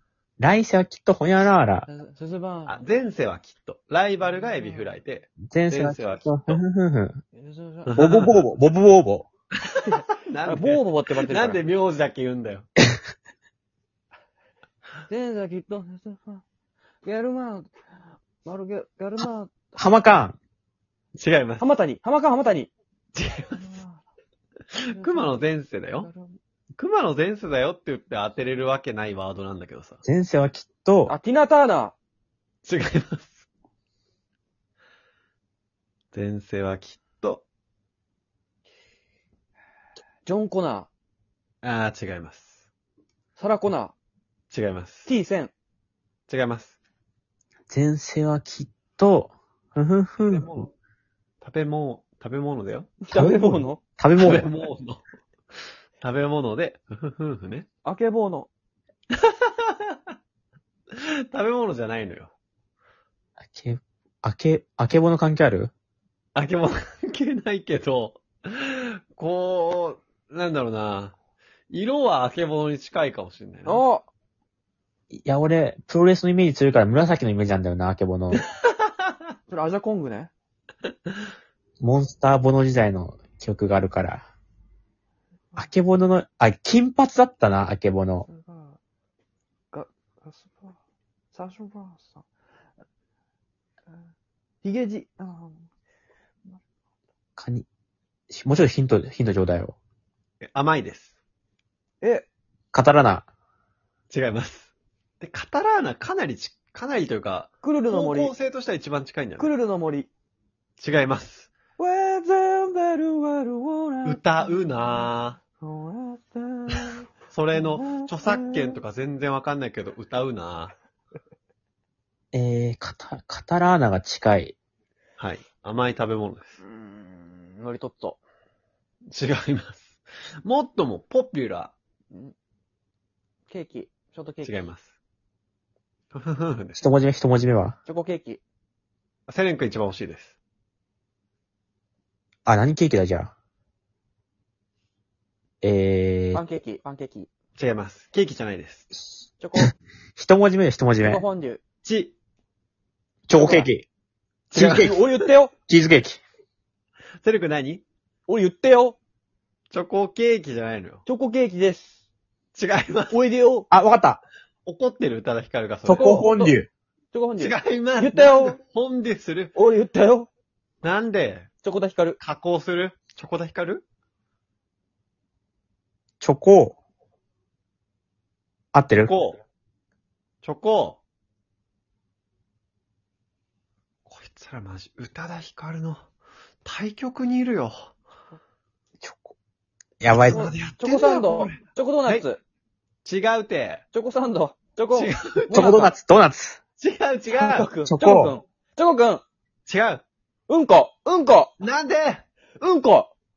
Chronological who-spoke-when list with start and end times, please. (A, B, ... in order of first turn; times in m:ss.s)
0:00.4-0:01.9 A
0:01.9-0:02.8 B
0:02.7-0:06.6 C
0:05.5-0:07.2 A
0:07.4-0:07.9 B
0:07.8-0:08.4 C
0:08.0-0:09.3 A
0:09.7-0:12.7 C
0:09.9-0:11.6 B
0:15.1-0:16.4 B
0:17.0-0:17.7 B
0:18.4-0:19.8 B
0:19.8-0:20.4 A
0:21.2-0:21.7 C
0:21.6-0:22.7 B
0:23.1-0:23.8 C
0:23.6-0:24.0 B
0:24.8-0:26.1 C
0:24.9-0:25.5 B
0:26.0-0:26.3 B
0:26.8-0:30.0 C
0:30.0-0:31.2 A
0:31.1-0:31.9 B
0:32.6-0:33.4 C
0:36.1-0:37.4 C
0:40.2-0:40.9 B
0:41.6-0:42.6 C
0:43.4-0:43.9 B
0:44.5-0:45.1 C
0:45.1-0:45.5 B
0:46.3-0:46.8 C
0:47.7-0:50.6 A
0:50.3-0:50.7 C
0:51.4-0:53.0 C
0:53.0-0:53.8 B
0:53.1-0:54.5 A
0:54.2-0:55.0 C
0:56.0-0:57.7 C
0:57.8-0:58.5 B
0:59.2-1:00.0 C
1:01.0-1:02.3 C
1:03.5-1:05.7 A
1:06.4-1:11.2 C
1:11.7-1:13.8 C
1:13.6-1:14.0 B
1:15.2-1:18.4 A
1:19.5-1:20.3 B
1:21.8-1:24.2 A
1:25.6-1:28.3 A
1:28.3-1:28.8 B
1:29.7-1:30.8 B
1:31.3-1:32.2 B
1:34.6-1:35.7 B
1:37.4-1:37.7 A
1:38.3-1:39.8 A
1:40.4-1:41.2 C
1:42.7-1:43.3 A
1:44.1-1:49.5 C
1:47.6-1:48.3 B
1:49.4-1:50.1 B
1:50.8-1:51.5 C
1:51.8-1:55.1 B
1:54.0-1:55.4 C
1:55.6-1:58.8 B
1:57.3-2:00.7 C
2:02.3-2:04.6 A
2:05.2-2:06.6 C
2:06.6-2:08.2 B
2:09.1-2:11.8 C
2:13.5-2:14.6 B
2:14.4-2:14.9 C
2:16.1-2:16.8 C
2:16.8-2:17.8 A
2:17.9-2:18.4 B
2:19.3-2:20.4 C
2:22.5-2:23.3 A
2:25.6-2:26.4 A
2:26.3-2:27.3 B
2:27.6-2:28.9 C
2:29.4-2:29.7 B
2:30.2-2:31.2 A
2:31.0-2:31.6 B
2:31.8-2:32.1 C
2:33.3-2:33.9 A
2:33.3-2:33.7 B
2:34.5-2:35.0 C
2:34.5-2:35.0 A
2:34.8-2:35.5 B
2:35.7-2:36.2 A
2:37.2-2:37.8 C
2:38.3-2:39.0 B
2:39.7-2:41.0 C
2:41.1-2:42.0 B
2:42.5-2:43.2 C
2:43.1-2:43.7 B
2:43.7-2:44.2 A
2:44.6-2:46.3 C
2:45.8-2:46.7 A
2:45.9-2:46.6 B
2:47.1-2:48.6 B
2:47.4-2:49.6 C
2:49.6-2:50.3 B
2:50.8-2:51.5 C
2:51.6-2:52.2 B
2:52.2-2:53.8 C
2:56.2-2:56.8 A
2:58.7-2:59.1 A
2:59.0-2:59.4 C
3:00.4-3:01.0 C
3:04.1-3:06.0 C
3:06.6-3:07.9 C
3:09.0-3:09.4 A
3:10.0-3:10.5 A
3:10.1-3:12.3 C
3:10.3-3:12.4 B
3:13.0-3:13.8 C
3:13.9-3:15.9 B
3:14.9-3:15.7 C
3:15.5-3:16.6 A
3:16.8-3:17.7 C
3:17.4-3:19.2 B
3:17.8-3:18.4 A
3:19.7-3:20.0 C
3:20.5-3:21.5 B
3:21.6-3:22.2 C
3:22.6-3:23.1 B